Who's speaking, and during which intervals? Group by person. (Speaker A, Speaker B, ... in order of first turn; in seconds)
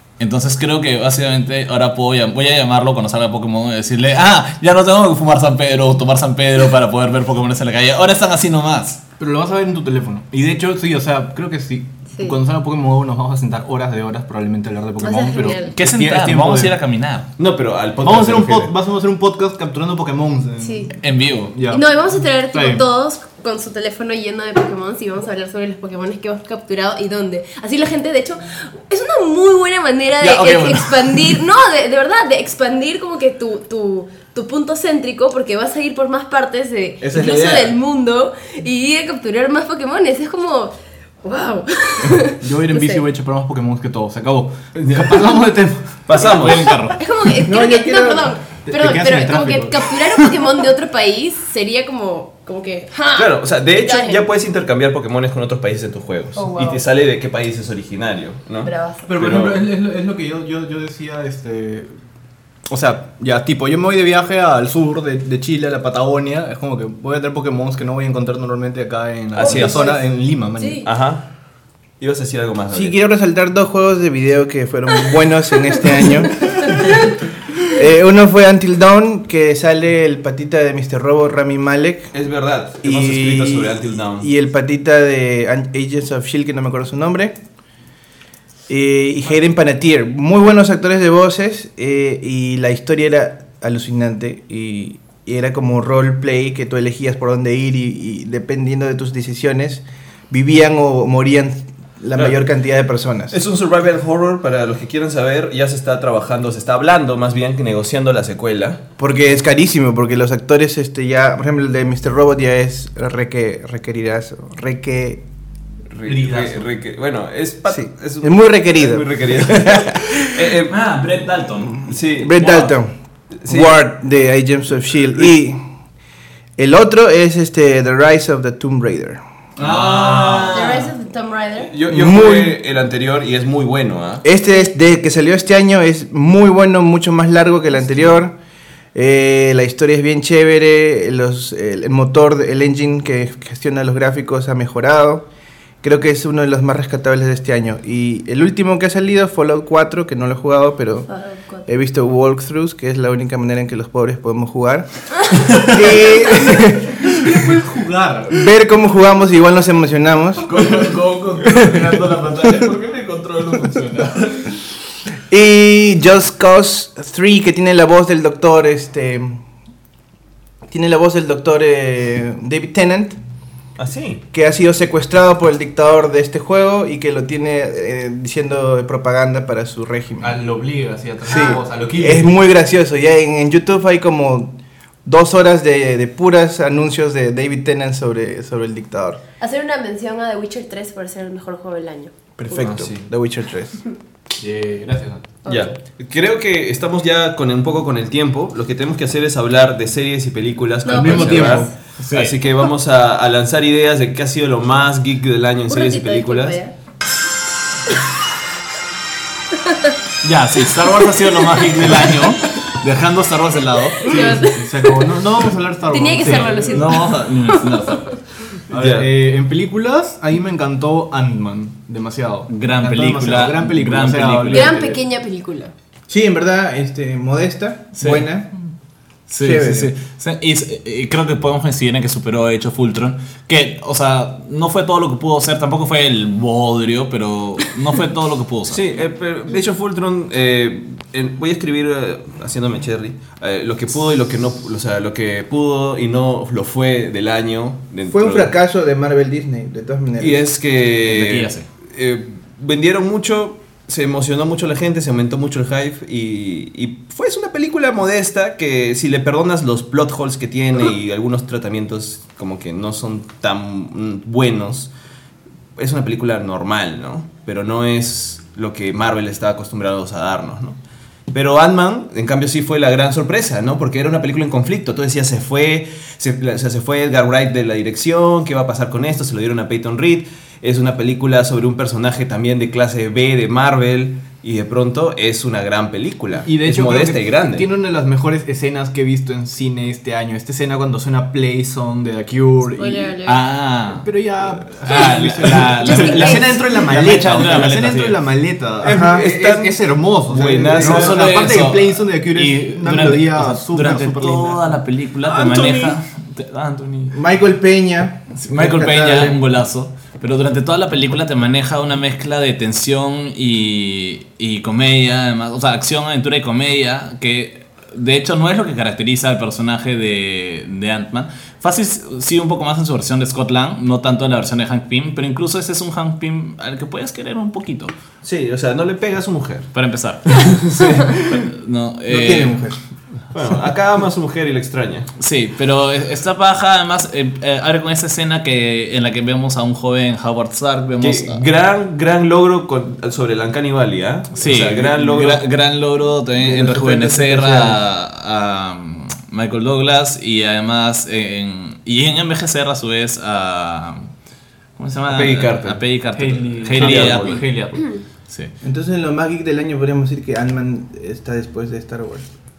Speaker A: 0.2-9.0, 15.8-17.3, 21.0-21.6, 30.2-31.4, 46.2-47.0, 120.7-122.7, 129.6-130.9, 160.4-164.5, 202.0-202.4, 210.2-214.3, 216.3-218.2, 222.5-224.8, 228.0-228.3, 229.3-238.8, 251.1-251.7, 293.2-294.1, 294.7-298.2, 300.8-307.2, 308.4-327.9, 329.7-332.6, 335.2-341.4, 344.4-354.1, 354.8-357.6
Speaker B: 9.2-16.8, 18.0-20.9, 21.5-22.8, 37.0-37.7, 42.2-46.0, 48.7-50.3, 59.1-61.9, 62.7-70.9, 116.1-116.6, 156.5-158.4, 180.2-182.3, 194.4-195.2, 200.9-201.7, 214.1-216.8, 218.7-225.0, 286.5-293.2, 293.9-304.7, 356.1-357.9
Speaker C: 12.1-12.4, 15.0-15.8, 20.6-20.9, 21.7-43.0, 46.9-54.3, 56.4-56.8, 58.6-59.2, 69.4-70.0, 70.6-70.9, 130.5-131.8, 151.1-151.7, 189.4-192.7, 195.4-195.7, 200.8-201.8, 205.7-206.8, 209.5-209.9, 211.6-212.3, 214.0-215.2, 215.9-218.2, 224.5-225.7, 292.8-293.5, 295.8-296.7, 357.8-358.0
Speaker D: 17.4-18.7, 44.8-45.3, 46.1-46.8, 53.1-59.7, 69.4-69.9, 70.8-71.3, 72.0-73.0, 82.1-84.3, 103.3-108.8, 115.9-120.8, 121.9-122.4, 123.4-123.8, 129.6-130.7, 131.7-134.3, 173.8-174.2, 192.5-193.0, 195.5-206.6, 218.7-219.1, 238.7-248.5, 250.2-264.9, 265.8-270.8, 271.3-287.7, 296.9-297.6, 298.8-301.5, 328.2-329.7, 330.4-331.2, 333.3-335.1, 341.0-345.4, 346.5-346.9, 355.1-355.8, 356.7-357.4
Speaker E: 47.4-48.3, 72.7-77.0, 77.6-82.1, 82.8-87.4, 88.7-103.4, 109.0-115.2, 117.7-120.5, 122.2-122.9, 123.5-125.6, 126.6-129.2, 131.9-132.6, 134.2-138.4, 138.9-145.3, 145.8-151.1, 151.7-154.9, 155.5-157.2, 158.3-160.9, 165.3-169.4, 170.7-173.2, 174.3-180.4, 181.3-189.2, 192.4-193.8, 226.1-228.5, 229.4-229.9, 248.1-250.4, 298.8-299.3, 305.2-306.0, 307.1-309.4, 332.1-332.8, 346.4-347.8, 358.6-362.2